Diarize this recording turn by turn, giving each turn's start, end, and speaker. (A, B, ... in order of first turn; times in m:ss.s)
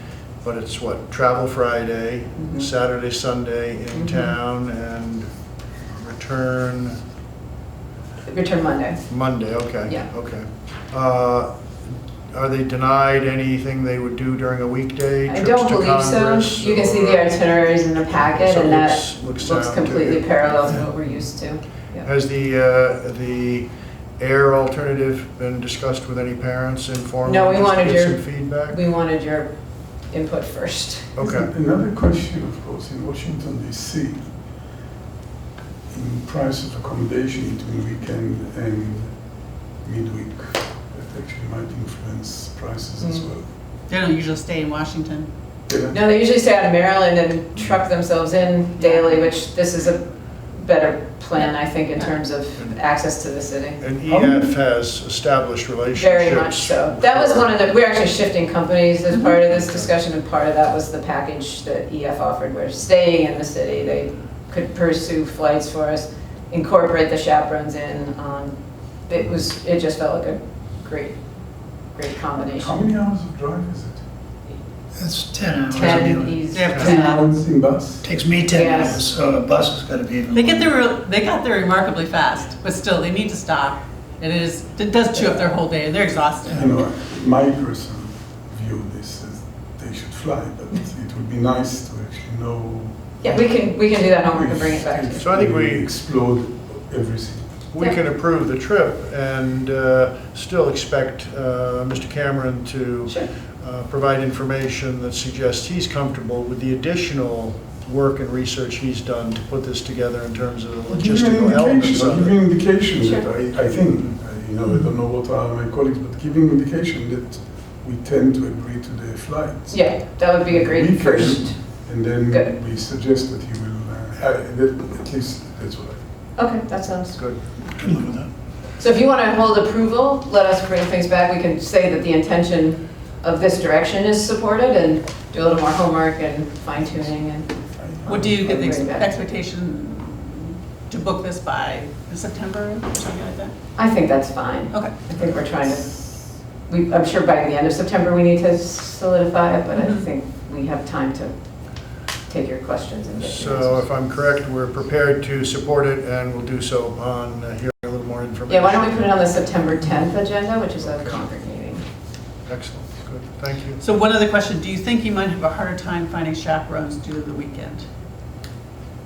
0:00.4-0:05.3 A
0:02.4-0:02.7 B
0:03.9-0:04.3 B
0:05.9-0:07.0 A
0:08.2-0:09.0 B
0:09.1-0:11.5 A
0:12.3-0:17.4 A
0:15.3-0:22.1 B
0:18.1-0:20.9 A
0:22.0-0:28.8 A
0:27.2-0:29.5 B
0:30.1-0:31.1 B
0:31.2-0:31.5 A
0:31.2-0:34.3 C
0:35.9-0:39.2 C
0:39.8-0:43.4 C
0:43.0-0:43.3 B
0:43.9-0:45.3 D
0:45.7-0:46.0 C
0:45.9-0:50.0 B
0:48.8-0:49.2 D
0:50.5-0:53.8 B
0:53.8-0:57.5 A
0:55.9-1:08.5 B
1:09.1-1:11.2 B
1:11.9-1:12.8 B
1:12.5-1:14.0 C
1:14.9-1:17.2 E
1:15.7-1:17.2 B
1:16.5-1:17.2 D
1:16.8-1:18.1 C
1:18.0-1:20.7 E
1:18.5-1:19.0 B
1:20.3-1:26.7 D
1:26.5-1:33.7 C
1:33.2-1:35.3 B
1:34.3-1:37.5 C
1:35.2-1:35.8 A
1:37.7-1:52.3 A
1:50.9-2:06.0 C
1:59.7-2:01.6 B
2:02.3-2:02.5 B
2:06.4-2:07.2 B
2:07.8-2:08.3 E
2:08.8-2:17.5 B
2:17.8-2:18.5 C
2:18.0-2:23.5 D
2:18.2-2:19.2 B
2:23.8-2:26.0 B
2:26.7-2:31.3 B
2:32.3-2:33.8 B
2:33.2-2:39.1 A
2:38.5-2:41.8 B
2:40.8-2:41.2 A
2:42.4-2:43.8 A
2:43.8-2:47.8 D